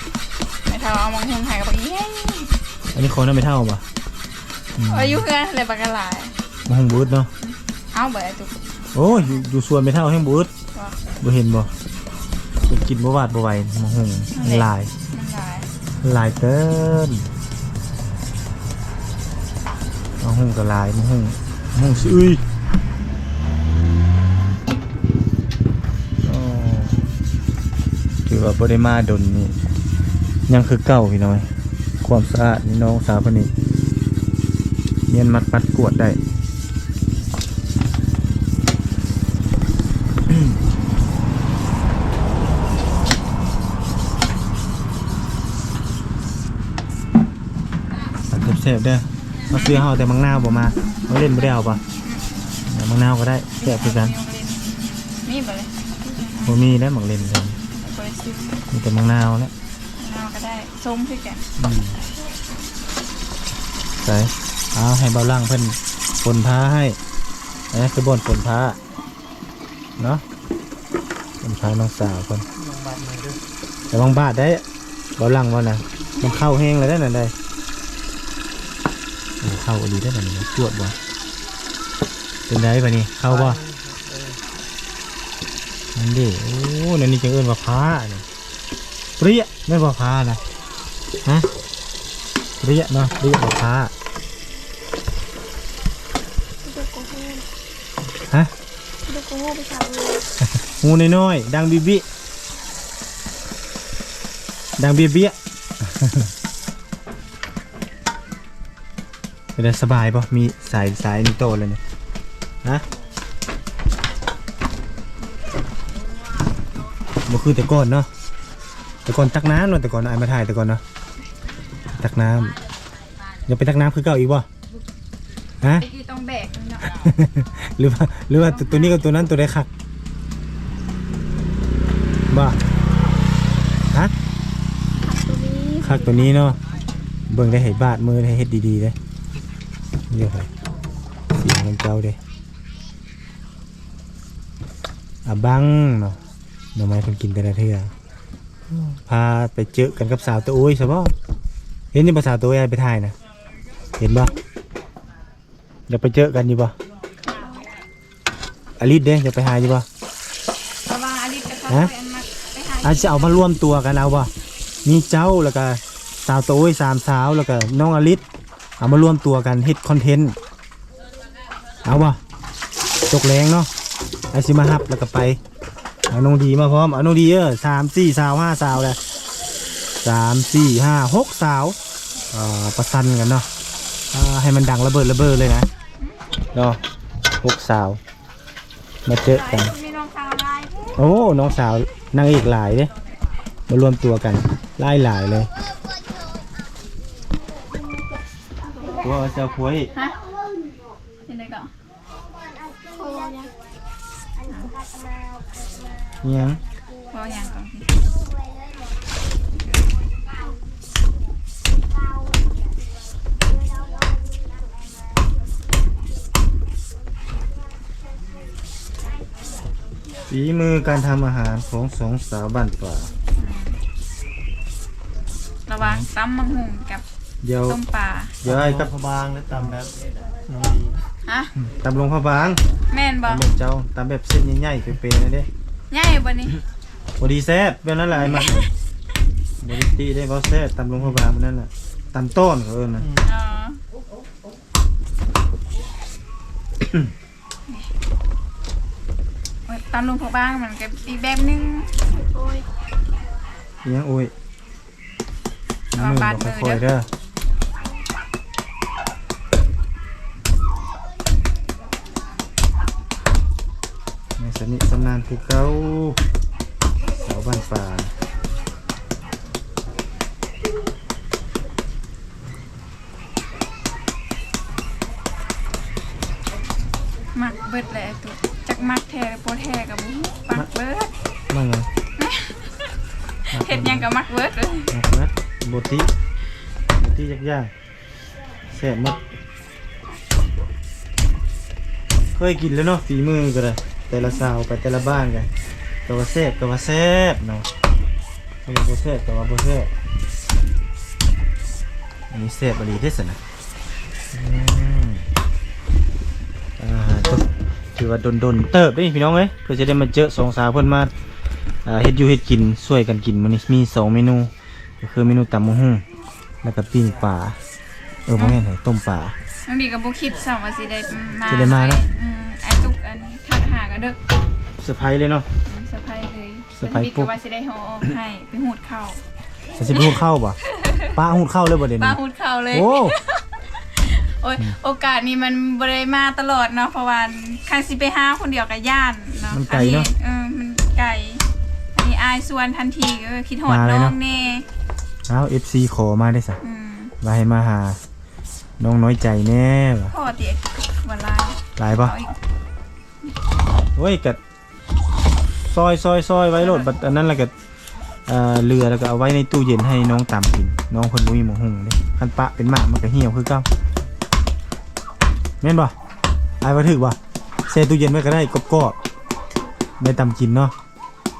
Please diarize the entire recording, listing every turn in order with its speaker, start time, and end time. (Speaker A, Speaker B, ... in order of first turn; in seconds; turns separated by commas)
Speaker A: 0.7-2.5, Speaker B: 2.9-3.8, Speaker B: 4.8-5.2, Speaker A: 4.9-6.3, Speaker B: 6.7-7.3, Speaker A: 7.4-8.5, Speaker B: 8.9-10.5, Speaker A: 9.1-9.4, Speaker A: 10.7-11.0, Speaker B: 11.2-11.7, Speaker B: 12.7-14.9, Speaker A: 14.3-15.7, Speaker B: 16.0-17.3, Speaker B: 20.2-22.4, Speaker B: 26.2-27.0, Speaker B: 28.2-29.6, Speaker B: 30.5-31.5, Speaker B: 32.0-33.5, Speaker B: 35.1-36.2, Speaker B: 48.3-51.8, Speaker A: 49.5-49.9, Speaker A: 51.9-52.2, Speaker B: 52.7-54.1, Speaker A: 53.6-56.6, Speaker B: 56.4-57.6, Speaker A: 57.8-58.7, Speaker B: 58.7-59.5, Speaker A: 60.0-61.5, Speaker B: 61.6-62.0, Speaker B: 64.0-67.0, Speaker B: 67.7-68.8, Speaker B: 70.0-70.2, Speaker B: 71.4-72.5, Speaker C: 72.5-73.4, Speaker B: 73.9-74.6, Speaker B: 75.2-77.3, Speaker B: 79.4-81.0, Speaker B: 82.5-83.6, Speaker C: 83.3-84.4, Speaker B: 86.0-88.2, Speaker B: 89.2-90.4, Speaker B: 92.6-93.9, Speaker D: 96.6-97.5, Speaker D: 99.1-100.3, Speaker B: 100.5-102.0, Speaker B: 104.8-106.3, Speaker B: 109.6-111.8, Speaker B: 117.3-118.1, Speaker B: 119.0-120.8, Speaker B: 122.0-122.6, Speaker B: 123.5-124.5, Speaker A: 125.8-127.1, Speaker B: 126.8-129.7, Speaker A: 128.4-129.0, Speaker B: 132.3-132.6, Speaker D: 135.0-136.4, Speaker B: 135.8-136.6, Speaker B: 137.3-138.9, Speaker B: 140.1-140.5, Speaker B: 141.3-142.2, Speaker B: 145.2-146.2, Speaker B: 146.8-147.9, Speaker B: 148.7-151.1, Speaker B: 151.9-153.2, Speaker B: 154.0-154.3, Speaker B: 155.9-156.8, Speaker A: 157.2-157.7, Speaker B: 158.8-159.9, Speaker A: 160.9-163.4, Speaker B: 162.8-164.3, Speaker B: 164.8-168.2, Speaker B: 168.8-170.4, Speaker B: 171.8-172.2, Speaker B: 173.1-173.7, Speaker B: 174.3-175.4, Speaker B: 176.1-179.0, Speaker B: 180.0-181.8, Speaker B: 182.3-183.5, Speaker B: 184.1-185.7, Speaker B: 186.5-186.8, Speaker B: 187.4-188.0, Speaker B: 189.1-189.7, Speaker A: 189.2-191.0, Speaker B: 190.9-192.9, Speaker B: 193.7-195.5, Speaker D: 198.8-199.1, Speaker B: 199.0-199.9, Speaker A: 201.2-201.7, Speaker D: 202.8-203.5, Speaker B: 206.2-206.6, Speaker A: 207.1-208.1, Speaker B: 220.3-223.1, Speaker A: 223.4-223.8, Speaker A: 225.7-227.0, Speaker B: 225.8-226.1, Speaker B: 227.4-227.8, Speaker A: 227.7-228.4, Speaker B: 228.4-228.9, Speaker C: 228.4-231.0, Speaker A: 231.3-231.5, Speaker B: 231.6-232.6, Speaker A: 232.9-233.4, Speaker B: 233.2-235.5, Speaker A: 235.9-236.6, Speaker B: 237.2-238.7, Speaker A: 238.2-238.7, Speaker B: 239.6-243.1, Speaker C: 243.0-243.2, Speaker A: 243.2-243.8, Speaker A: 249.7-251.9, Speaker D: 252.1-252.7, Speaker B: 253.8-254.3, Speaker B: 255.9-257.1, Speaker A: 256.0-256.9, Speaker B: 264.4-266.2, Speaker B: 267.2-268.1, Speaker A: 277.4-281.1, Speaker B: 281.5-281.9, Speaker A: 282.2-282.9, Speaker B: 283.5-284.1, Speaker A: 283.6-284.9, Speaker B: 284.9-286.1, Speaker B: 287.0-287.7, Speaker B: 288.7-289.2, Speaker B: 292.4-295.5, Speaker B: 296.1-297.7, Speaker B: 298.7-299.9, Speaker B: 302.3-303.4, Speaker B: 304.3-305.2, Speaker B: 306.8-311.1, Speaker B: 311.9-314.5, Speaker B: 315.0-316.0, Speaker B: 316.6-317.6, Speaker B: 318.3-319.4, Speaker A: 319.7-324.2, Speaker B: 321.5-322.0, Speaker B: 324.8-325.5, Speaker A: 325.7-329.2, Speaker B: 326.8-327.3, Speaker B: 329.8-330.6, Speaker A: 329.9-331.1, Speaker B: 331.1-332.2, Speaker A: 332.0-341.4, Speaker B: 332.7-333.2, Speaker B: 339.5-340.1, Speaker A: 341.9-344.7, Speaker B: 343.7-344.2, Speaker B: 345.3-346.6, Speaker A: 346.6-347.1, Speaker B: 347.2-348.0, Speaker B: 348.8-350.1, Speaker A: 350.1-352.3, Speaker B: 351.8-352.1, Speaker B: 354.0-354.4, Speaker B: 355.6-357.5, Speaker A: 356.6-357.1, Speaker B: 358.3-363.7, Speaker B: 365.6-365.9, Speaker B: 366.6-367.2, Speaker B: 367.7-369.0, Speaker B: 370.0-370.7